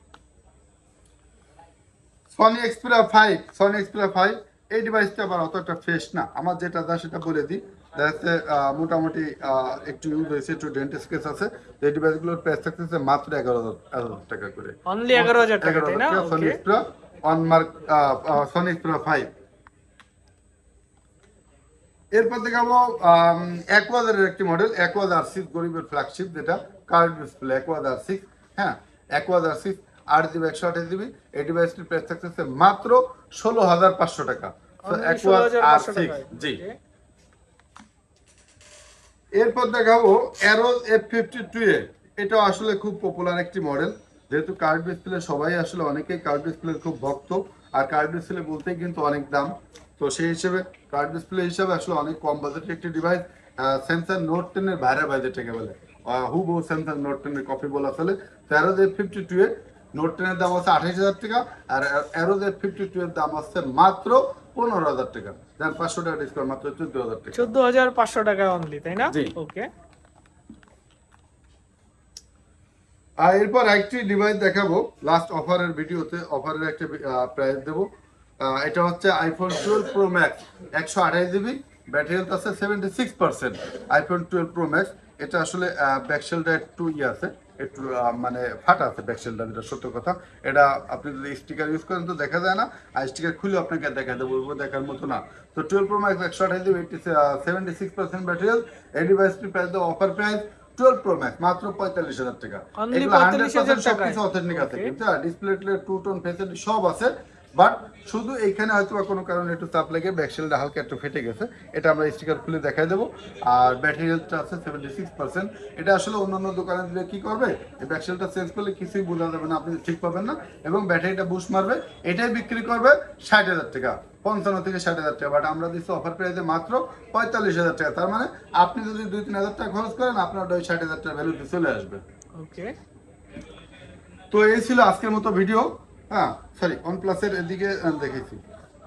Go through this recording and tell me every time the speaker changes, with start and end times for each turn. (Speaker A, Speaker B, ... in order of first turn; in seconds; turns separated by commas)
Speaker A: 2.3-19.3, Speaker B: 14.9-16.6, Speaker A: 22.1-36.6, Speaker B: 34.8-36.8, Speaker A: 39.4-67.5, Speaker B: 67.3-69.7, Speaker A: 69.0-69.3, Speaker A: 73.2-132.0, Speaker B: 102.8-104.9, Speaker B: 132.3-132.8, Speaker A: 134.3-138.4